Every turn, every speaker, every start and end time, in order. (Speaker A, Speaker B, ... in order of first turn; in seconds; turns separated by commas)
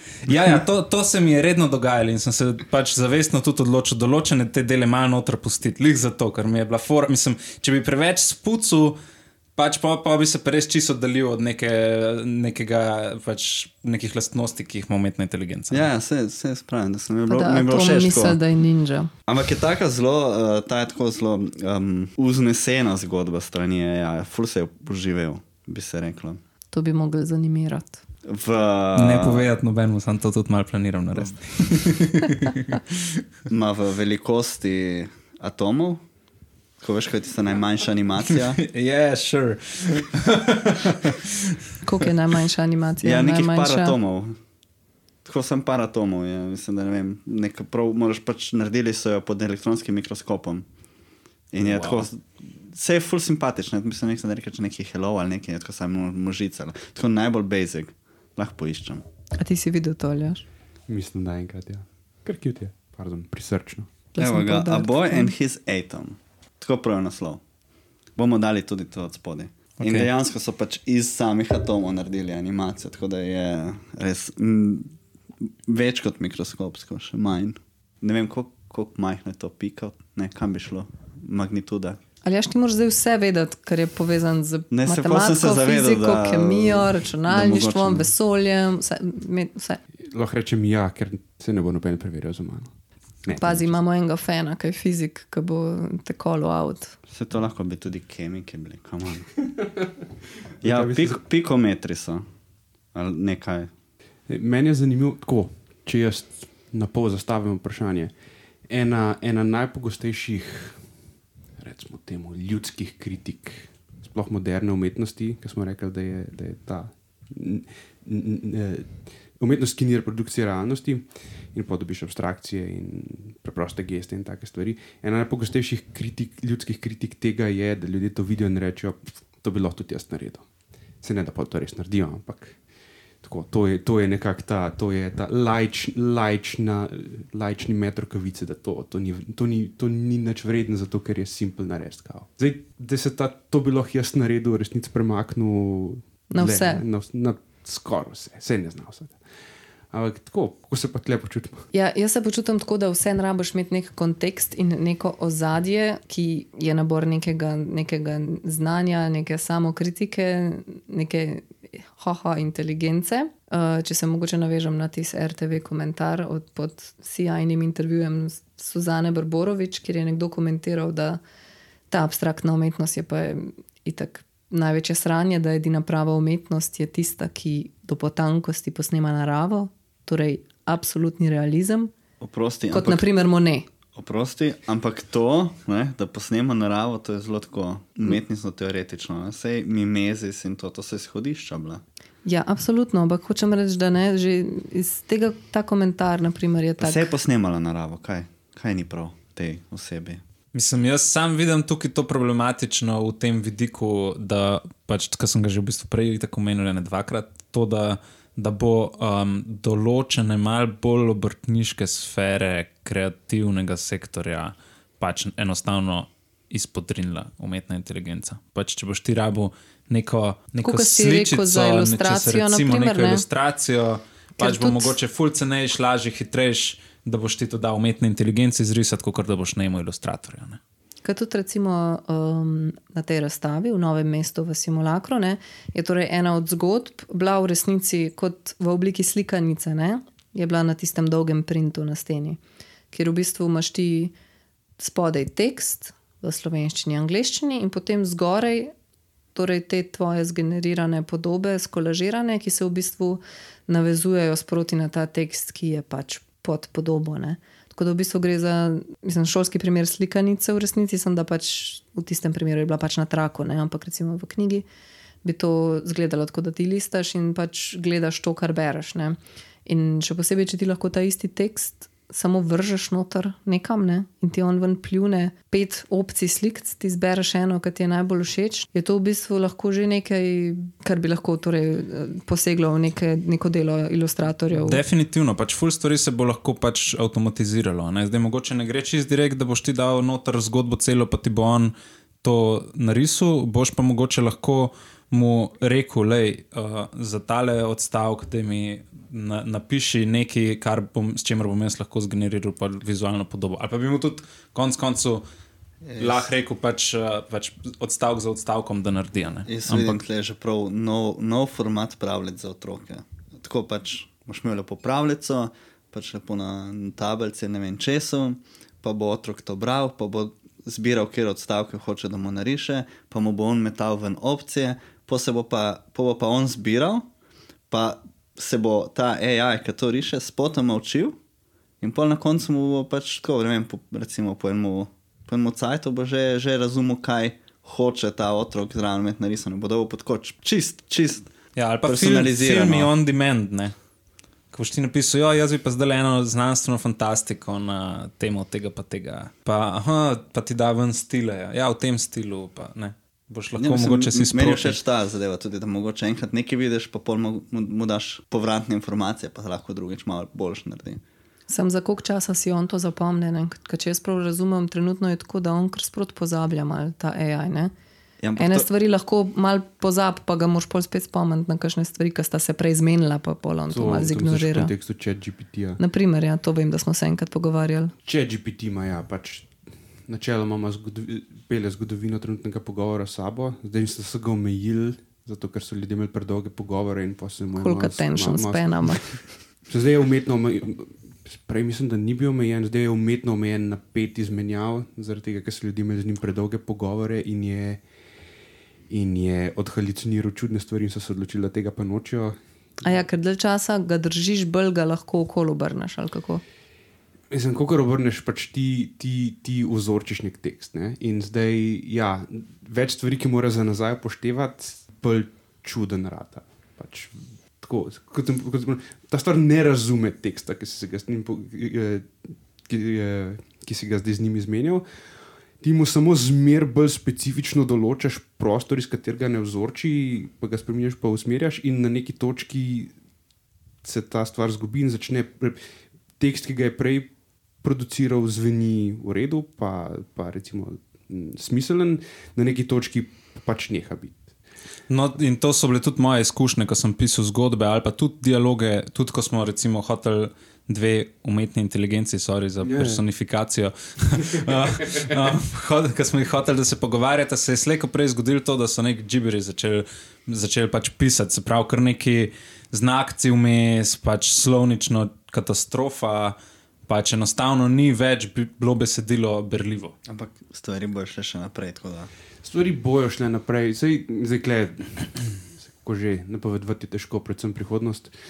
Speaker A: 0.2-9.0, Speaker A: 9.6-15.9, Speaker B: 15.7-18.4, Speaker C: 17.3-19.1, Speaker B: 19.3-26.4, Speaker C: 26.7-28.0, Speaker B: 28.2-29.5, Speaker A: 28.9-33.0, Speaker B: 33.5-36.0, Speaker B: 36.8-38.6, Speaker A: 38.5-41.3, Speaker C: 41.8-43.9, Speaker B: 43.0-44.4, Speaker B: 45.2-50.6, Speaker B: 51.5-59.0, Speaker A: 51.6-52.1, Speaker C: 59.4-60.4, Speaker D: 60.9-63.9, Speaker C: 64.1-65.3, Speaker B: 64.2-67.4, Speaker B: 68.2-74.9, Speaker A: 69.8-70.1, Speaker B: 75.7-82.0, Speaker C: 82.2-89.8, Speaker B: 84.7-88.1, Speaker D: 90.1-92.7, Speaker D: 93.2-93.8, Speaker C: 93.3-96.9, Speaker B: 97.1-99.3, Speaker D: 99.6-99.9, Speaker D: 100.6-101.2, Speaker B: 100.6-102.2, Speaker B: 102.9-103.7, Speaker D: 104.3-108.1, Speaker D: 108.7-110.8, Speaker D: 111.6-130.4, Speaker D: 131.0-132.6, Speaker D: 133.2-149.2, Speaker C: 146.3-146.8, Speaker D: 149.9-151.6, Speaker C: 151.7-171.2, Speaker C: 171.9-181.9, Speaker B: 182.2-183.1, Speaker C: 182.7-183.7, Speaker B: 183.9-191.8, Speaker C: 192.2-197.1, Speaker B: 196.8-200.2, Speaker A: 200.5-230.6, Speaker C: 220.6-223.2, Speaker C: 224.4-224.9, Speaker C: 231.0-242.4, Speaker C: 242.9-244.1, Speaker C: 244.8-248.7, Speaker C: 249.3-264.6, Speaker C: 265.2-284.8, Speaker A: 284.5-305.2, Speaker B: 305.8-306.3, Speaker A: 306.0-310.0, Speaker B: 309.5-327.1, Speaker B: 327.7-331.1, Speaker B: 331.8-341.3, Speaker A: 341.6-343.7, Speaker B: 341.9-342.9, Speaker A: 344.5-354.8, Speaker B: 353.6-361.0, Speaker C: 361.5-367.7, Speaker B: 368.2-368.6, Speaker C: 368.4-374.7, Speaker D: 373.7-375.8, Speaker C: 375.8-377.9, Speaker D: 378.0-379.5, Speaker D: 380.1-389.1, Speaker C: 387.6-389.0, Speaker D: 389.7-397.8, Speaker D: 398.9-402.4, Speaker C: 402.8-406.4, Speaker D: 407.3-424.8, Speaker D: 425.6-432.9, Speaker D: 433.8-435.6, Speaker D: 436.2-437.1, Speaker D: 437.6-444.3, Speaker A: 444.9-466.4, Speaker D: 452.6-453.0, Speaker D: 454.3-455.1, Speaker A: 466.9-469.9, Speaker B: 470.1-472.1, Speaker D: 472.4-478.1